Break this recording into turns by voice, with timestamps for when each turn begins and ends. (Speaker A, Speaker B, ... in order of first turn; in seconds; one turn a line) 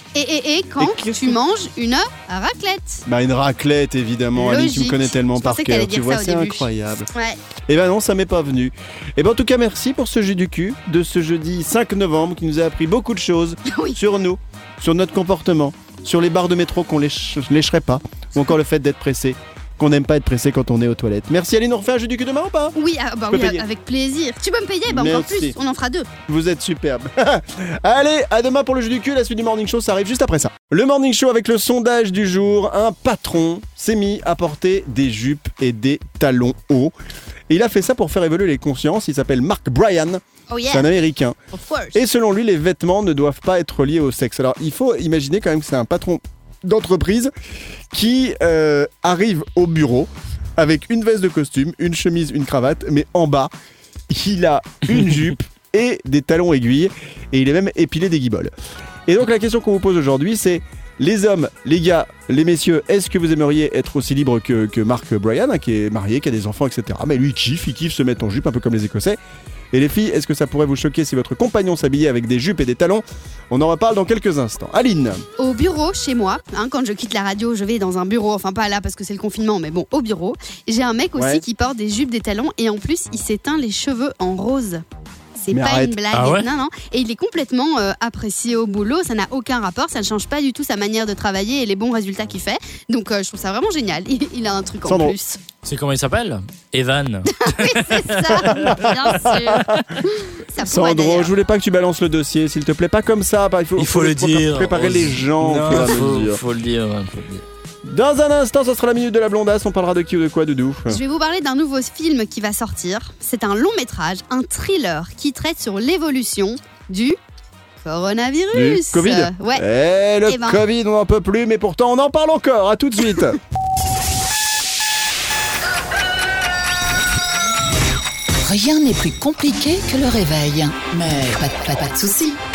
Speaker A: 0.1-3.0
Speaker B: 0.8-1.4
Speaker B: 3.1-7.1
Speaker A: 4.4-7.4
Speaker B: 7.7-22.8
Speaker A: 13.7-14.0
Speaker A: 22.8-26.1
Speaker B: 23.3-23.6
Speaker B: 24.9-25.6
Speaker B: 26.3-36.9
Speaker B: 37.5-41.4
Speaker A: 40.5-40.9
Speaker A: 41.5-42.0
Speaker B: 42.0-47.3
Speaker B: 47.9-53.5
Speaker B: 54.1-58.5
Speaker B: 59.1-69.2
Speaker B: 69.7-75.2
Speaker A: 75.4-84.8
Speaker B: 81.2-81.4
Speaker A: 85.4-95.4
Speaker B: 85.5-86.0
Speaker C: 86.1-86.5
Speaker B: 94.9-95.2
Speaker C: 95.7-99.9
Speaker A: 97.3-101.3
Speaker B: 98.5-99.8
Speaker B: 100.6-106.4
Speaker C: 103.8-107.5
Speaker B: 107.8-111.0
Speaker A: 110.9-117.2
Speaker A: 117.8-119.6
Speaker B: 118.5-123.4
Speaker A: 120.3-120.6
Speaker D: 128.4-132.4